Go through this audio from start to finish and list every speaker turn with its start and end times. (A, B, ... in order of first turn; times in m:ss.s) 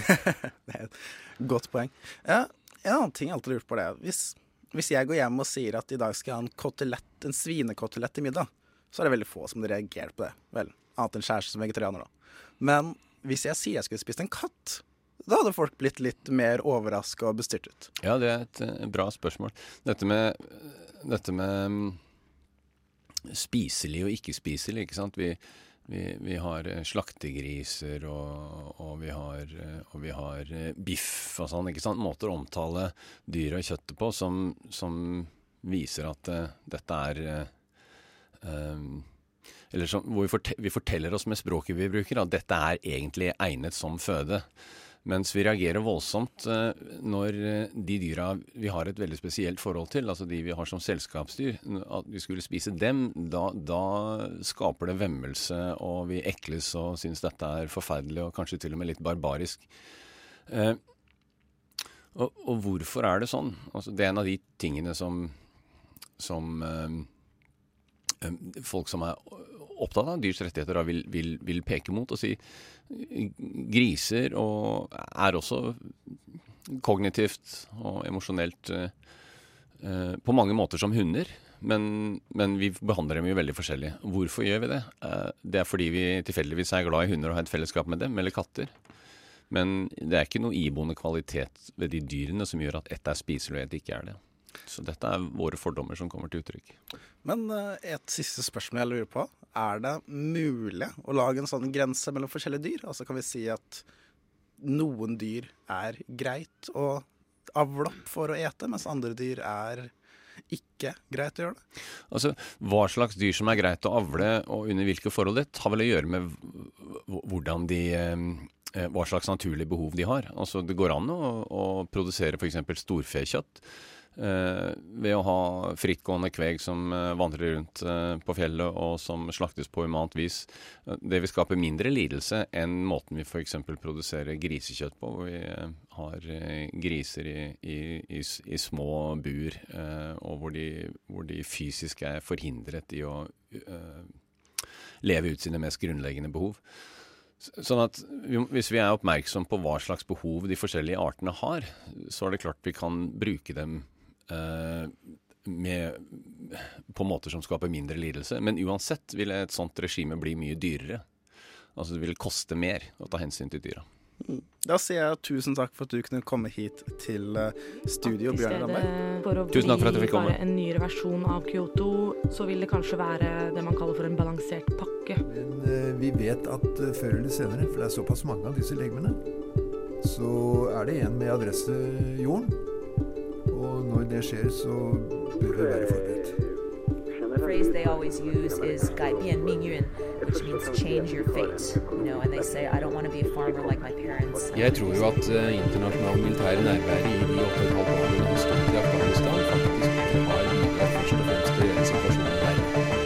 0:00.2-0:17.9 A
0:18.0-0:22.0 B
0:23.3-0:37.5 B
0:38.4-0:39.1 B
0:39.7-0:44.5 B
0:45.0-0:59.7 B
1:00.5-1:00.8 B
1:02.1-1:05.4 B
1:06.2-1:07.1 B
1:08.2-1:18.9 B
1:19.8-1:28.7 B
1:29.5-1:36.8 B
1:37.2-1:43.8 A
1:44.6-1:49.9 A
1:50.5-1:51.6 A
1:52.1-2:24.2 B
2:25.0-2:26.6 B
2:27.4-2:41.0 B
2:41.8-2:43.8 B
2:44.2-2:48.9 A
2:48.0-2:55.2 C
2:49.5-2:50.4 B
2:55.2-2:59.2 D
3:00.0-3:02.6 D
3:03.5-3:06.4 D
3:07.4-3:15.2 E
3:14.5-3:18.2 F
3:18.7-3:20.6 F
3:21.7-3:22.6 F